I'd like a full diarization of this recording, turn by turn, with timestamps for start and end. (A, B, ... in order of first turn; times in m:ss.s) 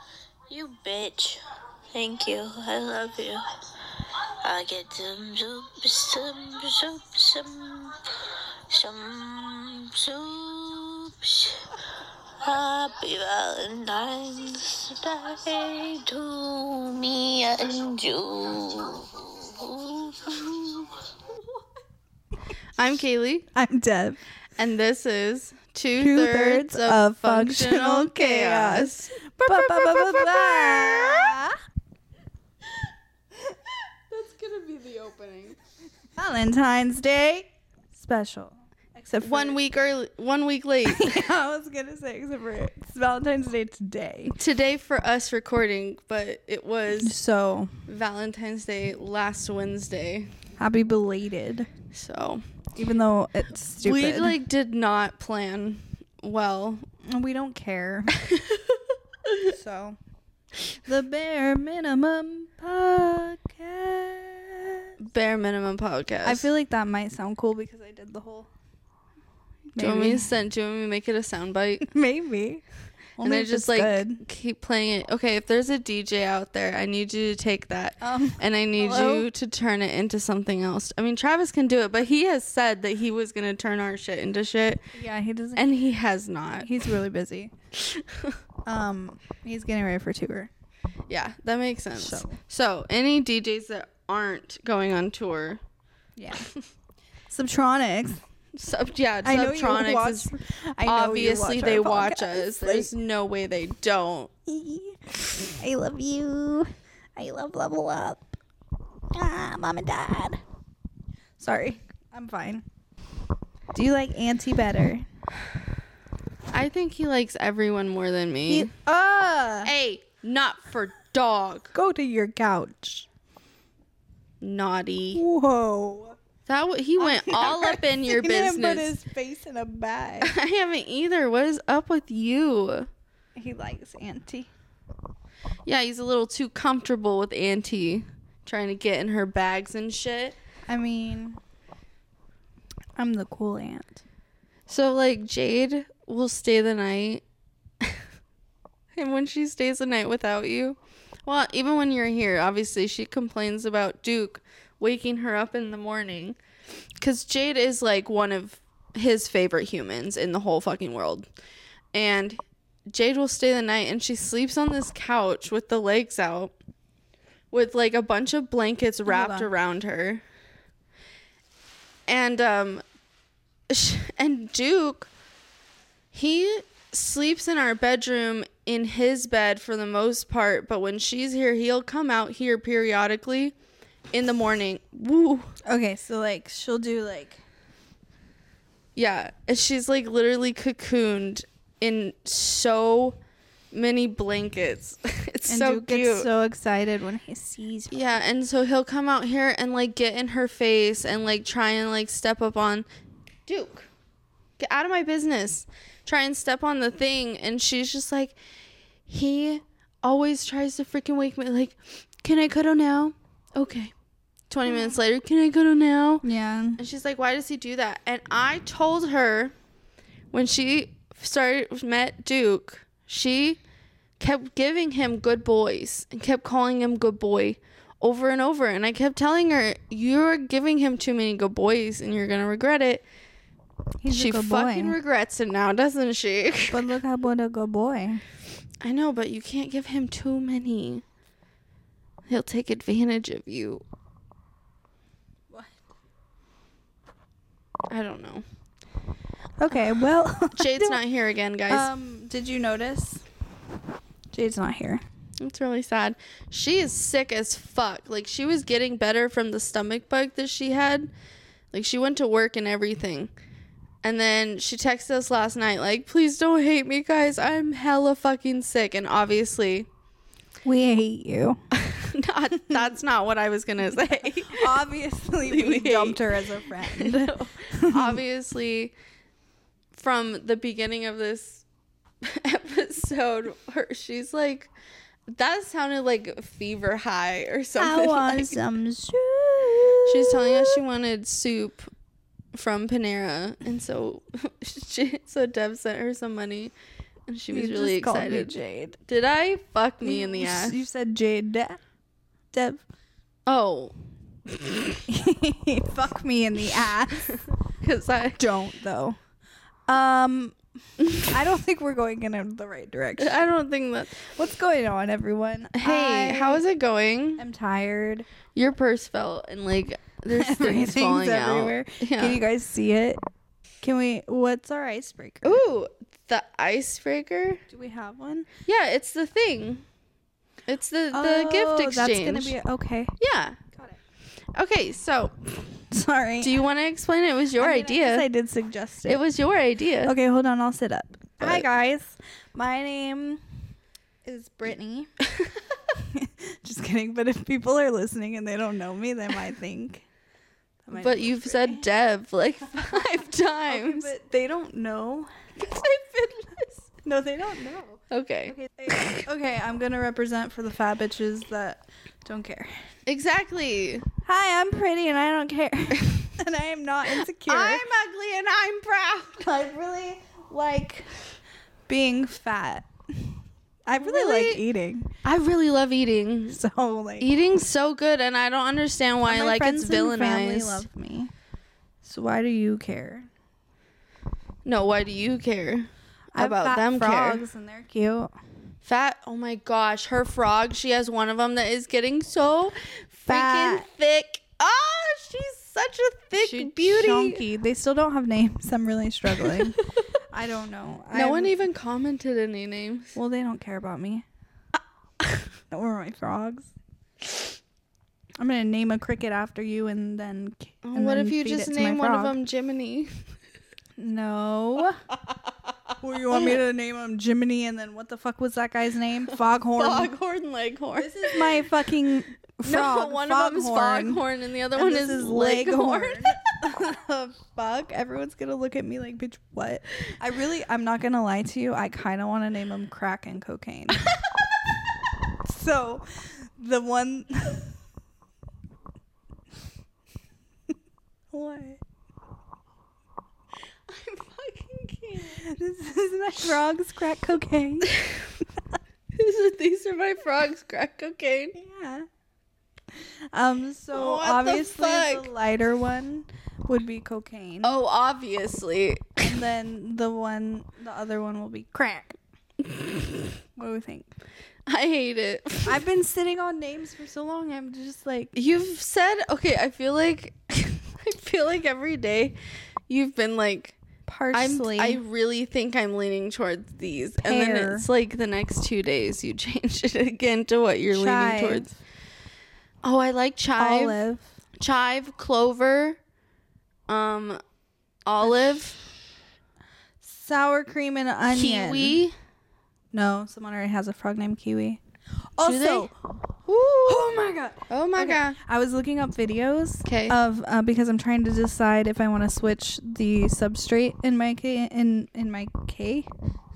0:00.5-0:01.4 A
0:01.9-0:03.4 A
0:04.4-0:08.0 A
0:08.7-0:11.6 A
0:12.4-0:21.0 A
0:22.8-0:23.5 B
0:23.5-0:24.2 C
0:24.6-0:31.4 B
0:26.0-0:31.6 C
0:34.1-0:35.6 B
0:36.2-0:39.6 C
0:39.2-0:41.3 B
0:40.8-0:44.3 C
0:44.3-0:47.2 B
0:47.0-0:47.7 C
0:47.9-0:50.3 B
0:50.6-0:51.7 C
0:51.9-0:52.4 B
0:52.8-0:54.4 C
0:53.8-0:56.8 B
0:57.0-0:58.2 C
0:58.2-0:59.5 B
0:59.5-1:00.0 C
1:00.8-1:04.9 C
1:05.0-1:06.5 B
1:06.2-1:08.5 C
1:09.7-1:10.3 C
1:09.8-1:11.9 B
1:11.8-1:12.6 C
1:13.2-1:14.2 C
1:13.2-1:24.8 B
1:18.0-1:19.3 C
1:24.9-1:25.8 C
1:25.6-1:26.8 B
1:26.6-1:27.5 C
1:27.8-1:28.4 B
1:28.6-1:30.5 C
1:31.1-1:35.6 B
1:31.9-1:32.4 C
1:36.2-1:36.5 C
1:37.3-1:38.2 C
1:38.5-1:40.3 B
1:39.2-1:42.9 C
1:40.8-1:44.3 B
1:44.5-1:48.2 C
1:49.1-1:50.4 C
1:51.4-1:52.6 C
1:53.7-1:55.0 C
1:56.5-1:58.7 B
1:58.5-1:59.7 C
1:59.6-2:01.7 B
2:01.7-2:03.1 C
2:04.4-2:05.2 B
2:05.1-2:06.2 C
2:06.5-2:08.9 B
2:07.0-2:10.3 C
2:10.2-2:12.9 B
2:13.4-2:14.5 C
2:15.6-2:20.4 B
2:20.7-2:21.4 C
2:23.0-2:24.0 C
2:24.7-2:27.2 B
2:28.9-2:36.4 B
2:37.0-2:41.2 B
2:41.9-2:46.5 B
2:47.5-2:50.2 B
2:49.0-2:49.5 C
2:52.1-2:52.8 B
2:53.7-2:55.1 B
2:56.1-3:03.5 B
3:04.1-3:05.5 B
3:05.6-3:07.4 C
3:09.0-3:13.2 B
3:13.7-3:16.3 B
3:15.5-3:18.1 C
3:17.9-3:22.8 B
3:23.5-3:23.9 B
3:24.6-3:28.4 B
3:29.1-3:33.9 B
3:34.5-3:36.2 B
3:34.6-3:35.0 C
3:36.2-3:36.8 C
3:36.8-3:39.5 B
3:40.3-3:43.6 B
3:44.2-3:53.0 B
3:54.0-3:55.0 C
3:54.1-3:56.8 B
3:56.7-3:58.2 C
3:58.8-4:01.0 B
4:02.3-4:03.8 B
4:05.5-4:05.8 C
4:07.9-4:08.4 B
4:09.6-4:11.0 C
4:10.5-4:11.9 B
4:11.7-4:13.2 C
4:14.3-4:15.0 C
4:15.4-4:21.1 B
4:21.7-4:23.3 B
4:24.0-4:29.9 B
4:30.6-4:31.6 C
4:31.7-4:34.7 B
4:32.6-4:32.9 C
4:34.1-4:38.2 C
4:35.4-4:38.9 B
4:39.9-4:41.6 B
4:42.2-4:44.7 B
4:45.3-4:48.6 B
4:47.8-4:50.8 C
4:50.1-4:51.9 B
4:52.5-4:56.7 B
4:57.3-5:00.8 B
4:57.5-4:59.0 C
5:00.0-5:01.8 C
5:02.5-5:02.8 C
5:03.5-5:03.9 B
5:04.5-5:05.0 B
5:05.1-5:07.4 C
5:07.3-5:08.4 B
5:08.4-5:09.2 C
5:09.9-5:10.6 C
5:11.0-5:11.3 B
5:11.2-5:13.4 C
5:13.2-5:14.2 B
5:14.2-5:16.6 C
5:15.8-5:17.4 B
5:17.4-5:18.3 C
5:18.5-5:22.4 B
5:20.3-5:23.2 C
5:23.8-5:25.6 C
5:25.4-5:27.6 B
5:27.7-5:28.5 C
5:28.6-5:29.8 B
5:30.7-5:32.6 B
5:31.1-5:33.1 C
5:33.2-5:33.6 B
5:33.7-5:34.0 C
5:34.6-5:35.5 B
5:35.9-5:36.6 C
5:36.4-5:38.3 B
5:37.6-5:39.2 C
5:39.0-5:40.1 B
5:40.0-5:43.4 C
5:44.2-5:45.1 C
5:46.0-5:50.0 C
5:50.8-5:51.9 C
5:50.9-5:54.1 B
5:52.7-5:55.3 C
5:55.6-5:56.9 B
5:57.0-6:02.8 C
5:58.1-5:59.2 B
6:03.1-6:04.0 B
6:04.2-6:07.8 C
6:07.1-6:09.5 B
6:09.4-6:11.1 C
6:11.9-6:15.1 C
6:13.9-6:14.6 B
6:15.2-6:16.6 B
6:16.5-6:17.3 C
6:17.2-6:20.8 B
6:19.2-6:21.3 C
6:22.0-6:23.3 C
6:24.6-6:27.4 B
6:26.4-6:28.3 C
6:28.8-6:37.4 B
6:33.3-6:33.9 C
6:36.4-6:41.6 C
6:39.3-6:40.0 B
6:41.1-6:43.2 B
6:43.1-6:44.2 C
6:45.7-6:46.7 C
6:48.4-6:52.4 C
6:50.8-6:53.2 B
6:54.0-6:55.0 C
6:56.0-7:00.1 C
6:59.8-7:01.6 B
7:01.0-7:14.1 C
7:02.6-7:06.9 B
7:15.4-7:17.6 C
7:21.3-7:21.8 C
7:23.9-7:25.5 B
7:25.4-7:27.9 C
7:27.9-7:28.3 B
7:29.1-7:31.6 B
7:31.5-7:32.1 C
7:32.9-7:37.8 C
7:33.9-7:35.3 B
7:37.6-7:39.3 B
7:39.2-7:42.2 C
7:42.7-7:43.2 B
7:43.6-7:44.1 C
7:44.7-7:45.8 B
7:45.6-7:48.3 C
7:48.3-7:52.4 B
7:52.9-7:53.8 B
7:54.1-7:55.0 C
7:54.3-8:01.7 B
7:57.2-7:57.9 C
8:00.9-8:01.7 C
8:02.8-8:04.0 B
8:03.6-8:04.3 C
8:04.6-8:06.0 B
8:06.9-8:07.4 B
8:08.0-8:08.8 B
8:10.0-8:12.0 C
8:11.3-8:12.1 B
8:12.9-8:14.8 C
8:15.4-8:15.9 C
8:15.4-8:15.9 B
8:16.4-8:17.2 B
8:16.8-8:26.1 C
8:17.7-8:18.4 B
8:19.8-8:20.2 B